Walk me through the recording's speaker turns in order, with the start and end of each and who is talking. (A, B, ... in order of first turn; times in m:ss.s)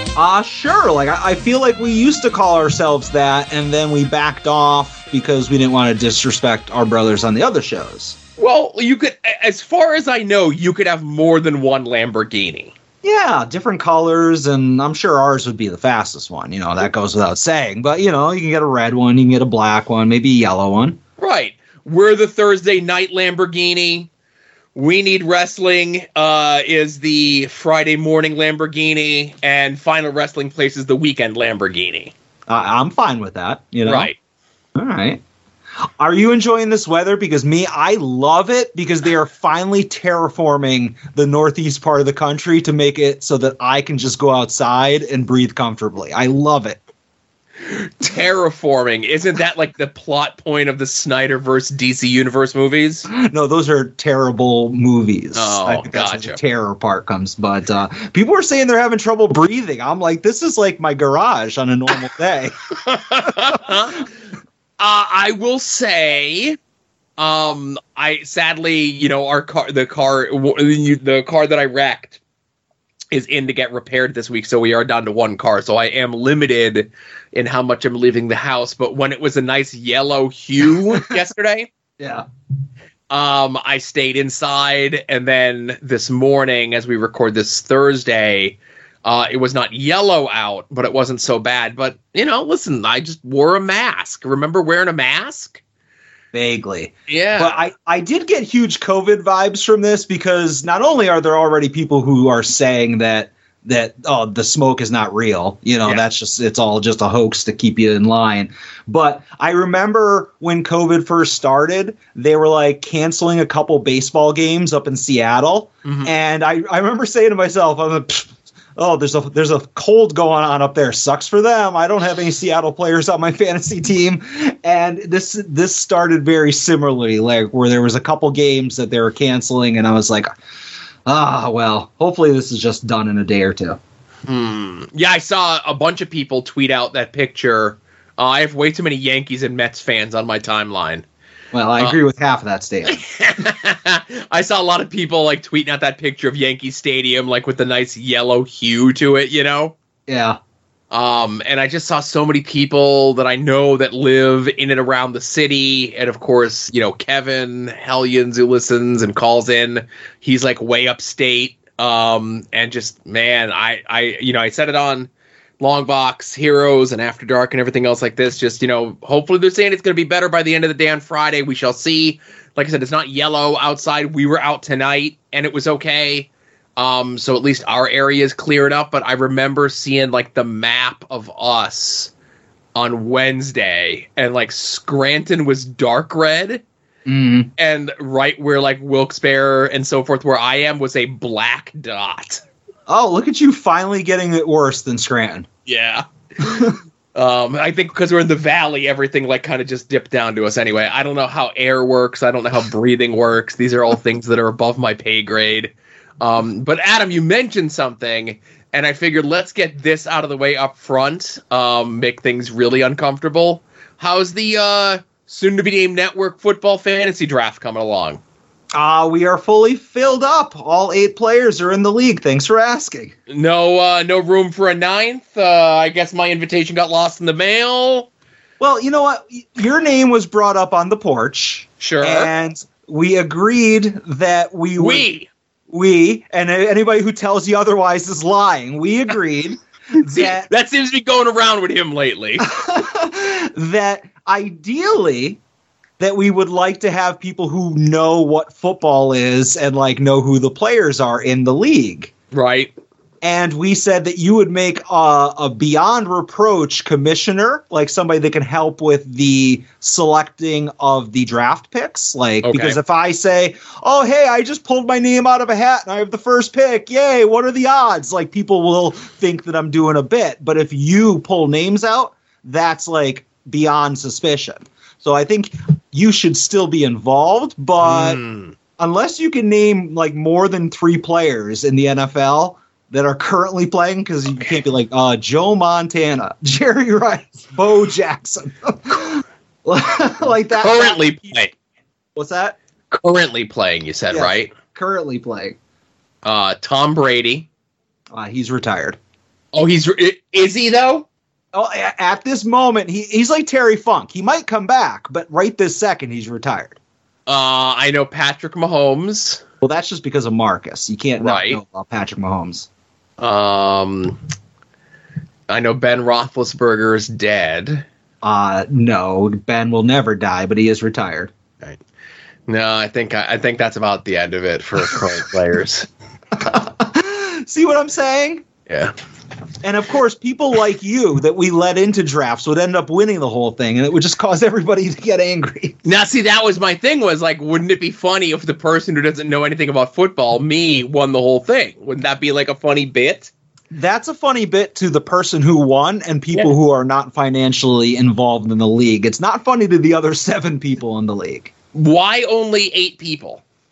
0:00.2-0:08.2 A
0:08.4-0:12.7 B
0:13.0-0:21.0 A
0:21.2-0:24.1 B
0:24.8-0:32.1 B
0:32.5-0:34.1 A
0:33.8-0:34.2 B
0:34.8-0:35.2 A
0:36.0-0:46.8 A
0:47.7-0:53.1 B
0:53.1-1:02.6 A
0:55.4-0:56.4 B
1:02.8-1:04.0 B
1:04.8-1:06.6 B
1:07.2-1:12.2 B
1:13.1-1:21.7 B
1:22.0-1:22.3 A
1:23.1-1:35.6 B
1:36.3-2:10.3 A
1:37.1-1:37.6 B
1:55.8-1:56.1 B
2:11.1-2:13.8 A
2:14.3-2:21.0 B
2:21.5-2:23.0 A
2:22.8-2:29.8 B
2:30.1-2:30.4 A
2:30.9-2:45.1 B
2:45.6-3:02.1 B
3:02.8-3:06.6 B
3:07.1-3:07.5 A
3:07.6-3:12.4 B
3:12.9-3:15.5 A
3:15.7-3:38.2 B
3:16.4-3:16.8 A
3:38.7-3:43.2 A
3:43.3-3:48.1 B
3:48.6-3:55.1 A
3:51.8-3:52.3 B
3:54.8-3:55.3 B
3:55.7-4:00.5 A
4:00.0-4:02.5 B
4:02.4-4:05.4 A
4:06.0-4:12.1 A
4:12.3-4:12.7 B
4:13.2-4:38.2 A
4:22.4-4:22.8 B
4:37.8-4:38.5 B
4:38.8-4:51.1 A
4:50.6-4:51.5 B
4:52.2-4:52.6 A
4:52.9-4:54.5 B
4:54.1-4:55.6 A
4:56.2-4:57.5 B
4:58.1-4:59.0 A
4:59.5-5:01.1 B
5:01.5-5:06.8 A
5:07.3-5:09.4 B
5:09.6-5:12.7 A
5:11.2-5:11.6 B
5:13.2-5:14.2 B
5:15.5-5:17.9 B
5:18.2-5:21.3 A
5:22.5-5:25.9 B
5:26.4-5:28.4 A
5:28.7-5:28.9 B
5:29.6-5:35.8 A
5:35.8-5:43.3 B
5:43.7-5:51.5 A
5:51.7-5:53.4 B